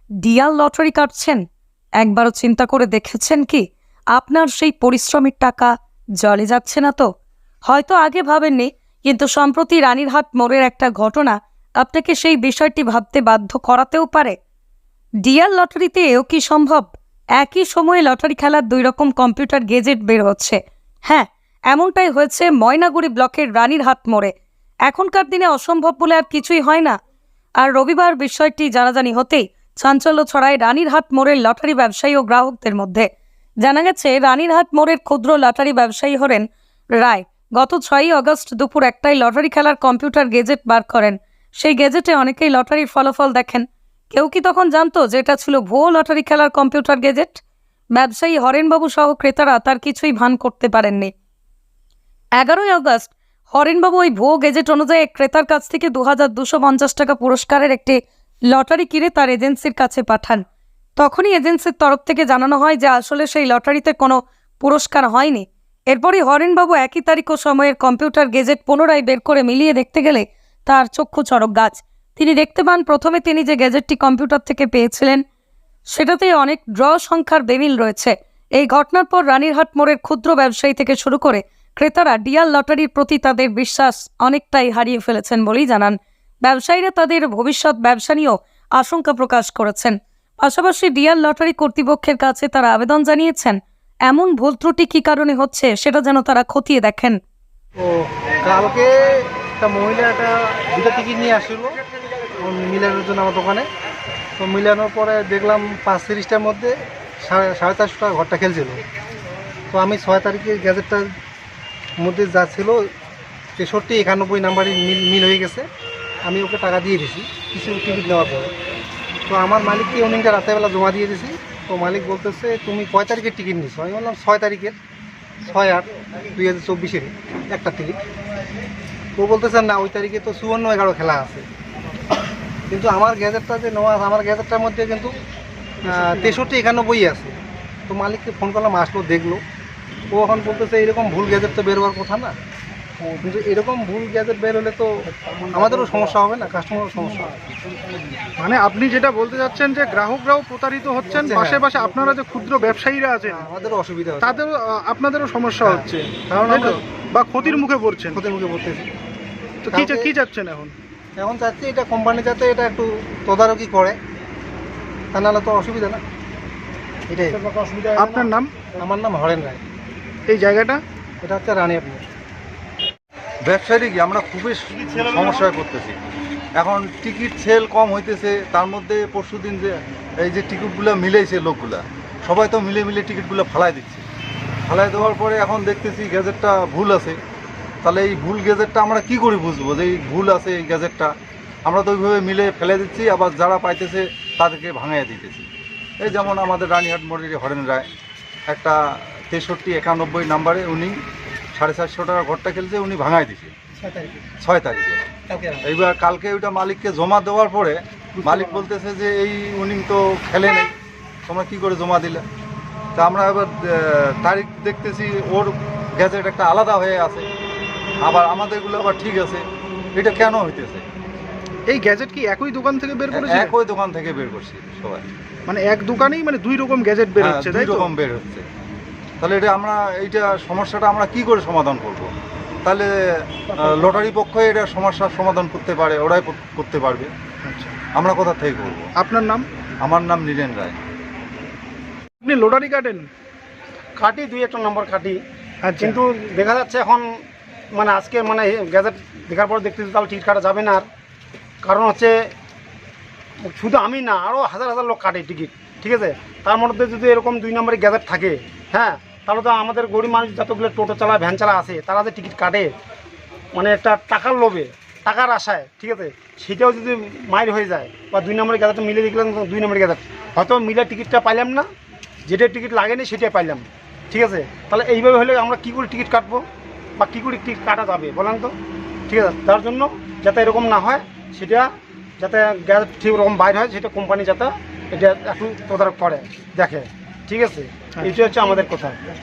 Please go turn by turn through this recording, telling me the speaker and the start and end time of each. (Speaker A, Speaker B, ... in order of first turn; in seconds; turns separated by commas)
Speaker A: 0.2-1.4, Speaker A: 2.0-7.1, Speaker A: 7.7-14.4, Speaker A: 15.2-24.3, Speaker A: 24.9-27.0, Speaker A: 27.6-33.1, Speaker A: 33.6-36.5, Speaker A: 37.0-47.4, Speaker A: 48.0-51.1, Speaker A: 52.4-58.0, Speaker A: 58.5-60.4, Speaker A: 61.0-75.2, Speaker A: 75.9-97.2, Speaker B: 97.8-101.8, Speaker B: 102.4-103.6, Speaker B: 104.4-106.7, Speaker B: 107.2-108.8, Speaker B: 109.7-111.1, Speaker B: 112.0-112.8, Speaker B: 113.6-115.7, Speaker B: 116.3-118.5, Speaker B: 119.3-124.8, Speaker B: 125.5-128.0, Speaker B: 129.2-131.4, Speaker B: 132.7-135.1, Speaker B: 135.8-137.3, Speaker B: 137.9-139.4, Speaker B: 140.1-142.3, Speaker B: 143.2-144.9, Speaker B: 145.5-147.3, Speaker C: 148.4-153.4, Speaker B: 151.1-151.7, Speaker B: 153.3-154.4, Speaker C: 154.2-158.2, Speaker B: 155.7-156.8, Speaker B: 158.1-158.9, Speaker C: 159.7-160.8, Speaker B: 159.7-160.1, Speaker B: 161.2-164.0, Speaker B: 165.1-166.0, Speaker B: 167.1-167.4, Speaker D: 167.3-168.3, Speaker C: 168.0-168.5, Speaker B: 168.8-169.6, Speaker C: 170.3-170.8, Speaker B: 171.2-172.1, Speaker E: 173.5-176.0, Speaker D: 174.7-175.5, Speaker E: 176.6-184.1, Speaker E: 184.7-187.2, Speaker E: 187.8-191.1, Speaker E: 191.7-195.5, Speaker E: 196.0-197.9, Speaker E: 198.5-198.8, Speaker E: 199.3-200.9, Speaker E: 201.6-203.5, Speaker E: 204.4-205.1, Speaker E: 205.6-210.7, Speaker E: 211.3-212.2, Speaker E: 212.9-217.3, Speaker E: 218.0-219.4, Speaker E: 220.0-220.9, Speaker C: 221.7-223.5, Speaker E: 223.1-225.0, Speaker C: 225.5-227.9, Speaker E: 227.2-228.4, Speaker E: 229.2-232.1, Speaker E: 233.5-237.1, Speaker D: 233.6-234.1, Speaker C: 237.4-237.8, Speaker E: 237.9-238.9, Speaker C: 239.0-239.5, Speaker E: 239.8-240.8, Speaker C: 242.2-243.1, Speaker D: 244.0-245.2, Speaker C: 245.6-246.0, Speaker D: 245.8-247.1, Speaker D: 247.7-250.8, Speaker D: 251.6-252.1, Speaker D: 253.4-262.7, Speaker D: 263.5-271.7, Speaker D: 272.3-276.5, Speaker D: 277.0-278.5, Speaker D: 279.1-289.0